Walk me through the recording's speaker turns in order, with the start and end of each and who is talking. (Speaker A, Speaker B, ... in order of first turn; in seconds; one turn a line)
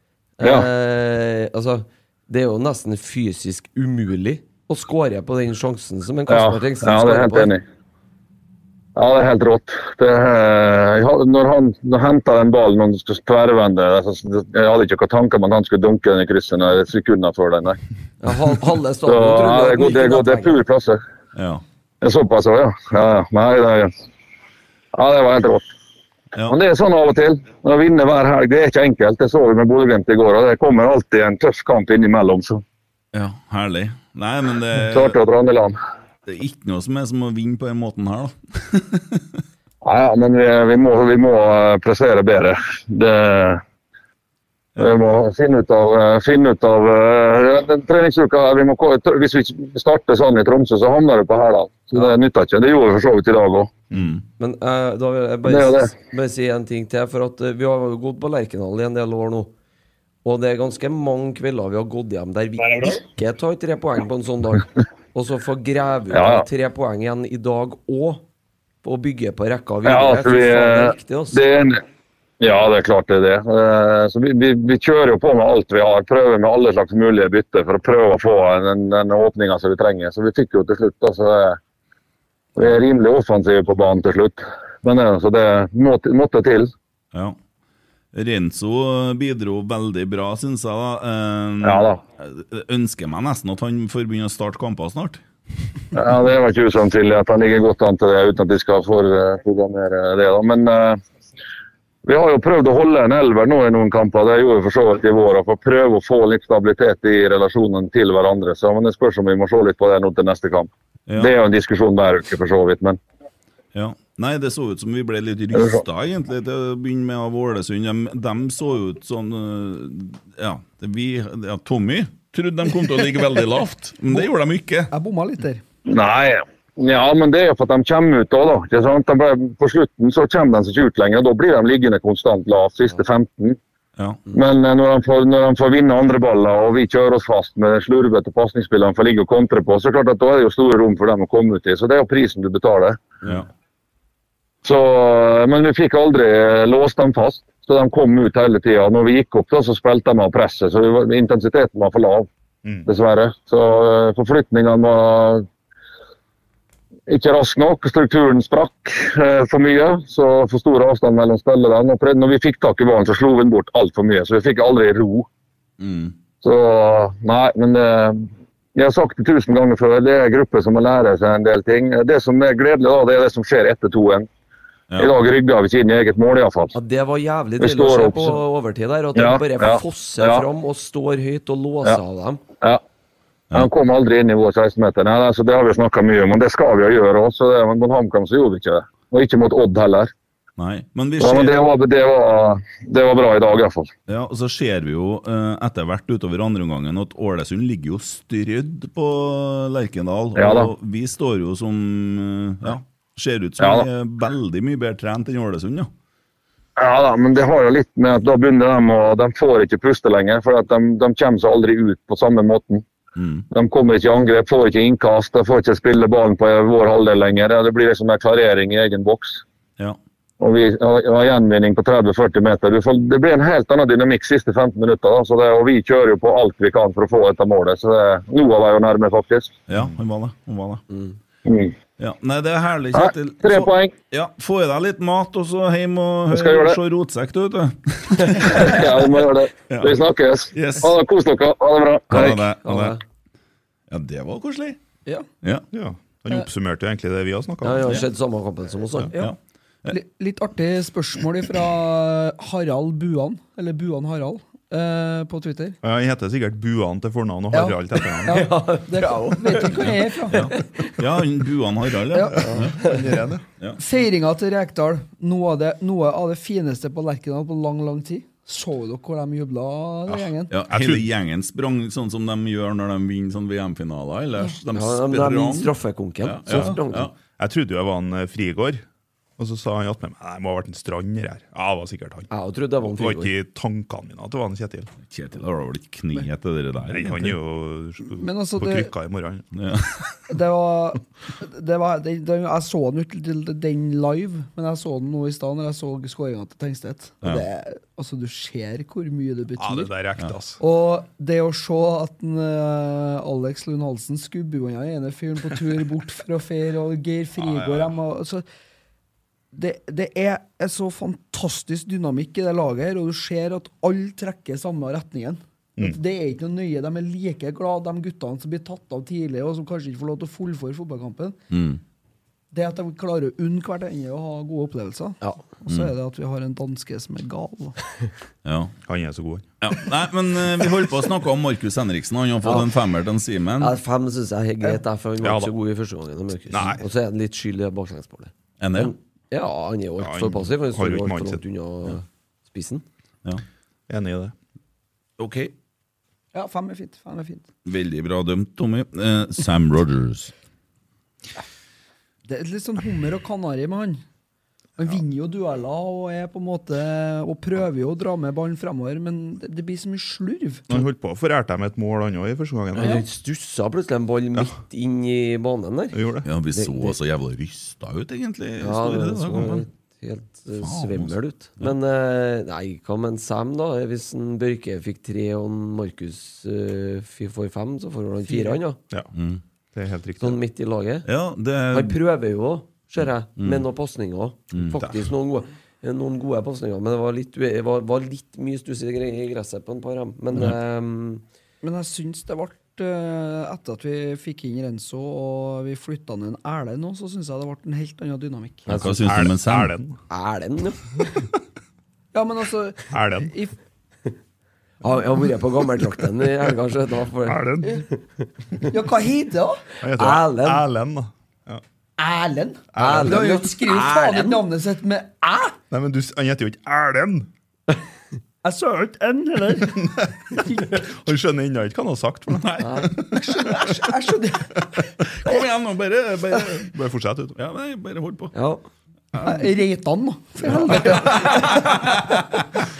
Speaker A: 0.4-7.5
Speaker B: 0.4-0.7
Speaker B: 6.3-7.6
Speaker B: 9.0-17.8
Speaker A: 18.2-20.6
Speaker B: 19.1-21.0
Speaker C: 21.4-21.6
Speaker B: 22.0-23.9
Speaker B: 24.9-25.7
Speaker B: 26.5-32.6
Speaker C: 33.1-35.2
Speaker B: 34.9-35.8
Speaker C: 36.3-39.4
Speaker B: 39.8-43.6
Speaker B: 44.8-53.7
Speaker C: 53.9-54.2
Speaker A: 54.4-59.5
Speaker B: 55.5-55.9
Speaker A: 60.2-68.2
Speaker B: 62.7-63.0
Speaker B: 66.1-66.5
Speaker A: 68.8-71.4
Speaker B: 69.8-71.8
Speaker B: 72.4-81.6
Speaker B: 82.6-86.7
Speaker C: 88.1-95.2
Speaker B: 91.6-92.0
Speaker B: 95.9-101.0
Speaker B: 102.0-113.0
Speaker C: 111.1-111.3
Speaker C: 113.7-124.9
Speaker B: 115.6-115.8
Speaker D: 124.9-125.6
Speaker B: 125.9-133.6
Speaker B: 134.3-143.0
Speaker B: 144.6-152.3
Speaker B: 152.9-155.5
Speaker B: 157.1-165.3
Speaker C: 165.8-166.2
Speaker B: 166.4-174.3
Speaker B: 175.0-176.7
Speaker A: 176.7-182.4
Speaker B: 177.6-178.4
Speaker B: 179.2-180.5
Speaker B: 183.5-190.1
Speaker C: 190.6-191.6
Speaker B: 191.2-193.9
Speaker C: 194.1-205.9
Speaker B: 200.4-200.7
Speaker B: 203.6-203.9
Speaker B: 206.8-212.8
Speaker C: 213.2-213.4
Speaker B: 213.5-219.4
Speaker B: 220.4-229.6
Speaker C: 229.7-230.8
Speaker A: 230.9-231.2
Speaker B: 231.5-231.8
Speaker C: 232.0-240.0
Speaker B: 232.9-233.9
Speaker B: 236.3-236.8
Speaker B: 238.4-242.4
Speaker C: 240.5-240.9
Speaker C: 242.1-243.0
Speaker A: 242.1-243.0
Speaker C: 243.9-244.8
Speaker E: 245.7-248.0
Speaker A: 247.6-249.1
Speaker C: 249.2-249.9
Speaker D: 249.9-255.8
Speaker E: 255.8-258.5
Speaker D: 257.5-260.5
Speaker A: 258.2-260.9
Speaker C: 259.8-262.8
Speaker D: 262.1-262.5
Speaker A: 262.4-263.1
Speaker E: 262.7-263.5
Speaker D: 263.8-270.5
Speaker E: 270.1-271.1
Speaker C: 270.5-277.1
Speaker A: 274.7-277.1
Speaker E: 277.4-278.9
Speaker E: 279.4-282.3
Speaker A: 282.3-283.3
Speaker E: 282.8-284.9
Speaker C: 285.1-287.4
Speaker E: 286.9-289.5
Speaker D: 288.2-288.9
Speaker C: 289.5-290.1
Speaker D: 290.3-299.9
Speaker E: 299.6-300.6
Speaker D: 300.6-308.4
Speaker D: 309.5-321.4
Speaker C: 321.5-321.8
Speaker D: 322.5-327.8
Speaker C: 325.7-325.9
Speaker C: 328.4-328.7
Speaker E: 328.9-329.5
Speaker C: 329.6-333.8
Speaker A: 332.4-332.7
Speaker A: 333.6-342.9
Speaker E: 335.2-335.5
Speaker E: 336.5-336.8
Speaker C: 338.6-338.9
Speaker E: 340.0-341.4
Speaker E: 343.9-344.4
Speaker C: 345.2-345.5
Speaker D: 346.3-347.5
Speaker C: 347.6-350.3
Speaker D: 352.3-354.0
Speaker D: 354.8-360.7
Speaker E: 360.7-363.1
Speaker A: 362.8-367.0
Speaker E: 365.9-366.3
Speaker C: 366.2-369.6
Speaker A: 368.6-378.8
Speaker C: 370.6-371.8
Speaker D: 378.3-378.6
Speaker C: 379.1-379.4
Speaker E: 379.7-380.4
Speaker A: 380.2-381.1
Speaker C: 381.1-382.0
Speaker A: 381.7-391.2
Speaker C: 383.4-383.6
Speaker C: 384.5-384.8
Speaker D: 391.6-398.7
Speaker A: 398.7-399.2
Speaker C: 398.7-399.7
Speaker E: 399.1-400.0
Speaker A: 400.1-401.2
Speaker D: 402.1-403.5
Speaker E: 402.9-403.3
Speaker A: 404.8-408.3
Speaker E: 407.3-407.7
Speaker D: 408.7-409.6
Speaker E: 409.8-411.6
Speaker A: 409.9-410.6
Speaker D: 412.0-415.6
Speaker E: 412.7-413.4
Speaker A: 412.8-414.4
Speaker E: 415.7-417.3
Speaker D: 418.4-420.6
Speaker E: 419.8-423.6
Speaker C: 422.4-422.9
Speaker A: 422.6-422.9
Speaker D: 423.1-424.6
Speaker C: 425.1-426.7
Speaker E: 426.6-427.4
Speaker C: 427.4-428.4
Speaker A: 428.3-428.6
Speaker D: 429.2-431.7
Speaker C: 430.8-431.8
Speaker A: 431.0-431.6